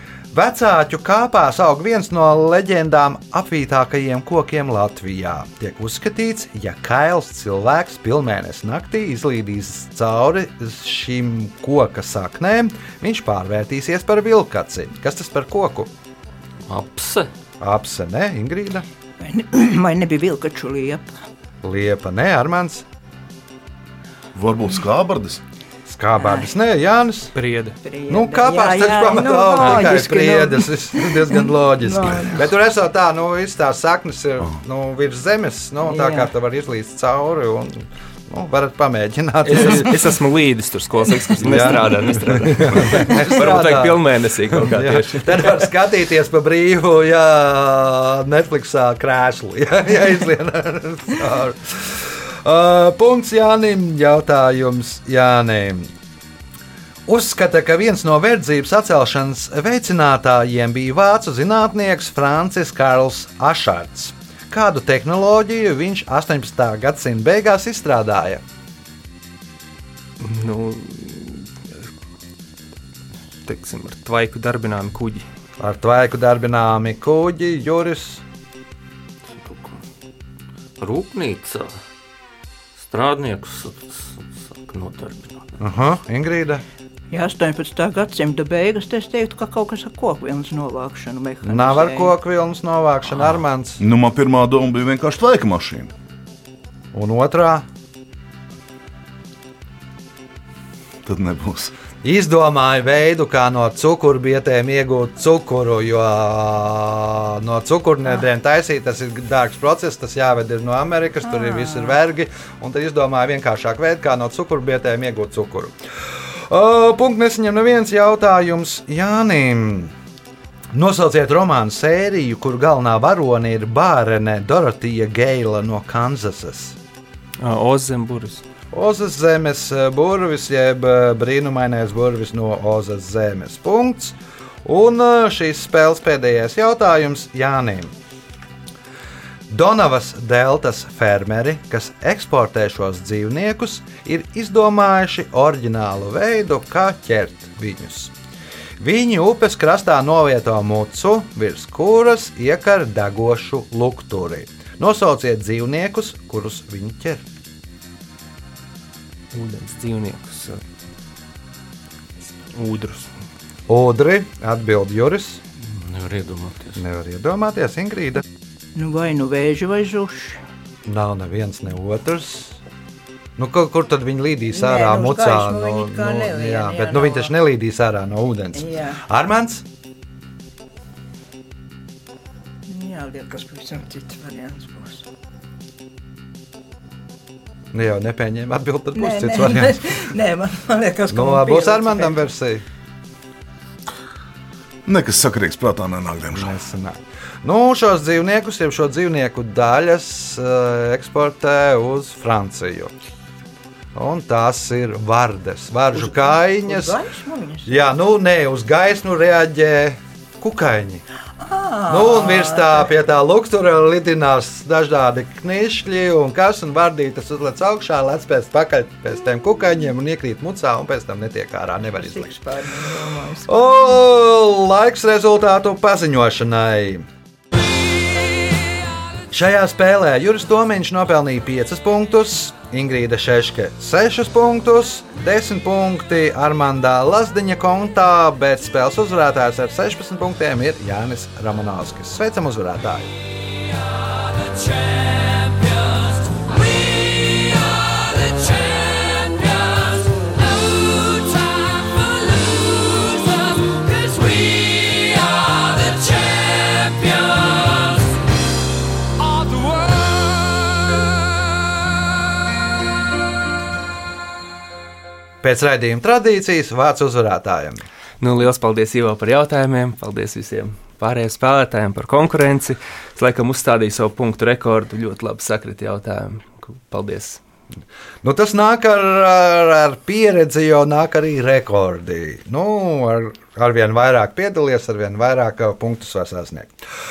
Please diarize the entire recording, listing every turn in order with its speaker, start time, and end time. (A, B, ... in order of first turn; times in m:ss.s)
0:00.3-0:15.9 A
0:16.7-0:17.3 B
0:17.6-0:18.9 A
0:19.2-0:21.1 C
0:21.6-0:22.8 A
0:24.4-0:25.4 D
0:25.9-0:27.3 A
0:26.2-0:26.5 C
0:27.3-0:27.8 E
0:27.8-0:32.5 C
0:28.1-0:40.1 A
0:35.8-0:36.3 C
0:39.4-0:45.7 E
0:41.4-0:55.9 A
0:57.1-1:08.4 A
1:10.2-1:11.5 E
1:13.4-1:15.3 E
1:15.6-1:18.2 A
1:19.3-1:19.8 B
1:20.8-1:21.8 B
1:22.8-1:25.5 B
1:25.6-1:26.6 A
1:27.1-1:32.2 C
1:31.4-1:33.8 A
1:33.8-1:35.9 D
1:36.9-1:37.6 A
1:41.0-1:41.7 D
1:42.0-1:59.9 A
1:51.4-1:52.0 C
2:00.7-2:06.8 A
2:07.4-2:08.4 E
2:08.7-2:17.9 A
2:19.5-2:28.1 A
2:28.8-2:37.2 A
2:39.3-2:40.6 E
2:42.5-2:43.1 E
2:43.7-2:45.4 A
2:45.6-2:46.8 B
2:46.8-2:48.2 A
2:48.8-2:50.4 C
2:50.9-2:52.6 A
2:53.4-2:59.6 A
2:54.5-2:57.4 C
2:58.6-2:59.0 C
3:02.7-3:05.1 C
3:07.7-3:09.9 A
3:09.0-3:12.2 C
3:11.1-3:12.6 A
3:14.9-3:16.6 D
3:16.3-3:22.9 A
3:24.0-3:27.0 A
3:25.9-3:27.9 C
3:27.7-3:31.0 A
3:31.4-3:32.9 C
3:31.9-3:42.3 A
3:42.0-3:44.0 C
3:43.5-3:47.1 A
3:49.3-4:03.1 A
4:11.1-4:12.4 E
4:14.3-4:15.1 B
4:19.3-4:20.1 E
4:25.4-4:27.8 A
4:28.2-4:37.4 E
4:38.2-4:46.7 A